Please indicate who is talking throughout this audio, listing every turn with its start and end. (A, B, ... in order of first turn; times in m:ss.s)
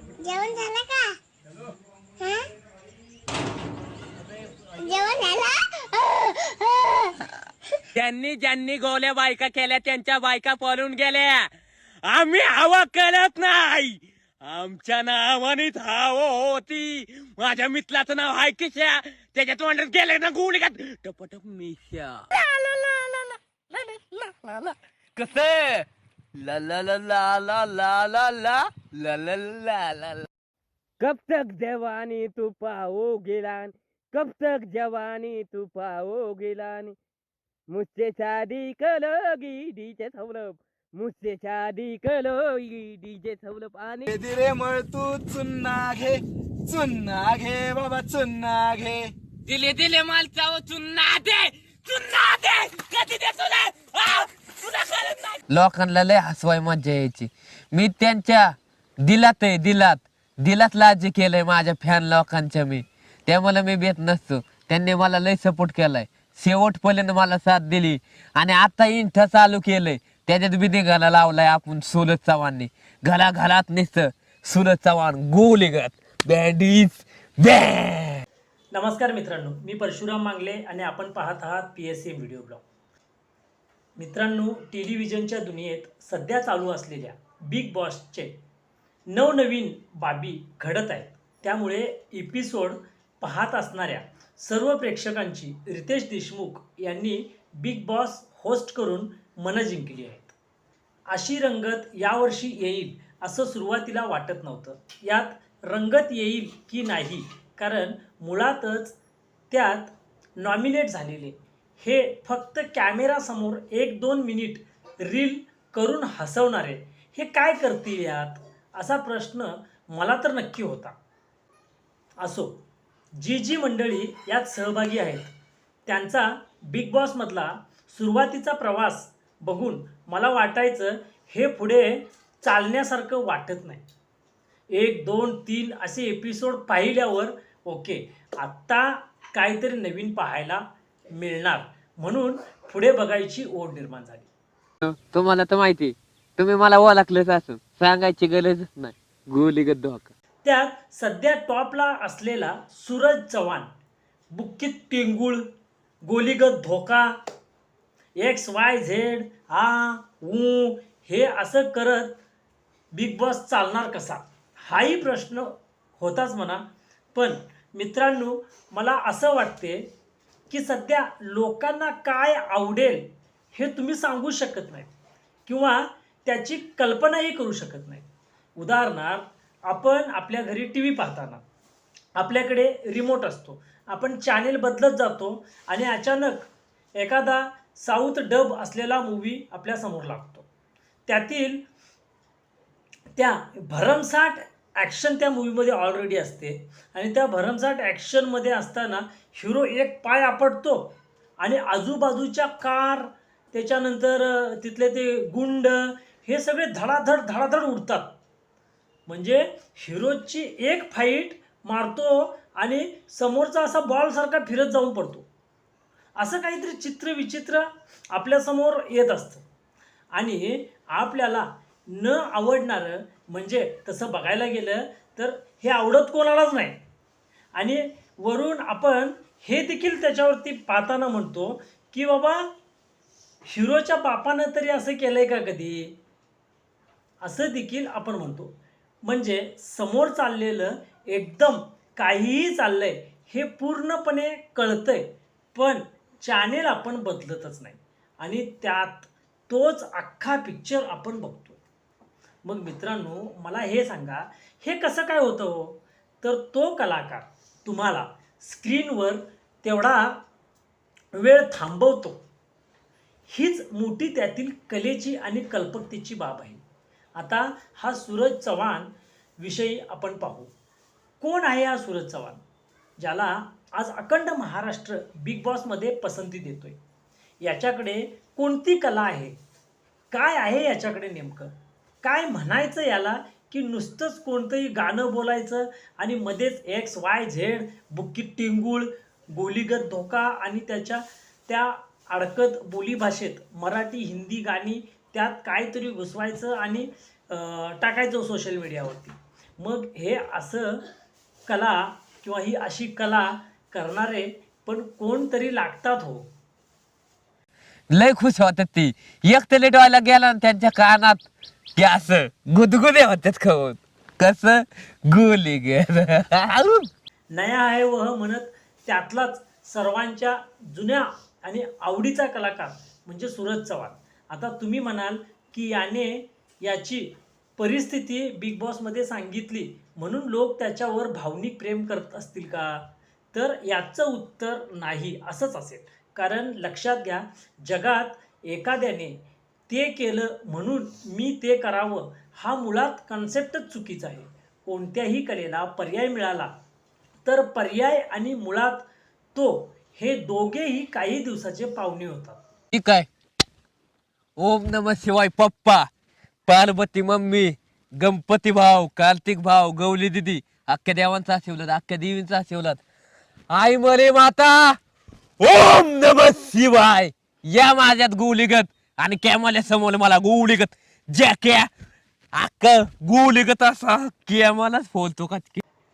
0:00.2-0:01.2 A
0:02.2-0:02.5 A
0:04.8-0:07.1 A
0:08.0-0:11.5 B
0:12.0-0:18.8 B
0:16.2-0:16.6 C
0:17.4-0:18.8 C
0:19.4-0:22.1 B
0:19.4-0:20.3 C
0:21.0-0:25.9 C
0:26.4-0:30.3 C
0:31.0-0:37.0 B
0:37.7-0:44.1 B
0:44.1-0:49.1 D
0:49.5-0:55.4 B
0:55.5-1:18.2 C
1:18.7-1:22.6 E
1:24.0-1:28.4 E
1:29.1-1:40.4 E
1:41.1-1:49.0 E
1:49.5-2:01.0 E
2:02.2-2:02.6 E
2:03.2-2:05.3 E
2:05.9-2:13.8 E
2:14.7-2:24.3 E
2:24.8-2:30.1 C
2:30.4-2:33.7 E
2:34.3-2:35.4 E
2:36.0-2:37.2 E
2:38.2-2:42.2 E
2:42.9-2:46.6 E
2:47.1-2:49.9 E
2:50.5-2:54.9 E
2:55.5-3:01.4 E
3:02.2-3:10.5 E
3:11.1-3:11.6 E
3:13.2-3:28.1 E
3:29.1-3:35.3 E
3:36.2-3:39.4 E
3:40.2-3:46.8 E
3:47.6-3:52.5 E
3:53.5-3:56.0 E
3:57.2-4:11.6 E
4:12.4-4:20.2 E
4:21.2-4:22.2 E
4:23.3-4:26.6 E
4:27.2-4:30.5 E
4:31.2-4:32.4 E
4:33.0-4:36.8 E
4:37.4-4:39.4 E
4:40.1-5:00.8 E
5:01.5-5:06.3 E
5:07.9-5:11.3 C
5:11.8-5:16.9 C
5:17.3-5:46.5 E
5:47.2-5:52.4 E
5:52.7-5:53.1 C
5:54.4-5:55.9 C
5:56.5-6:02.8 C
6:03.5-6:04.8 C
6:05.4-6:11.7 C
6:12.3-6:15.6 C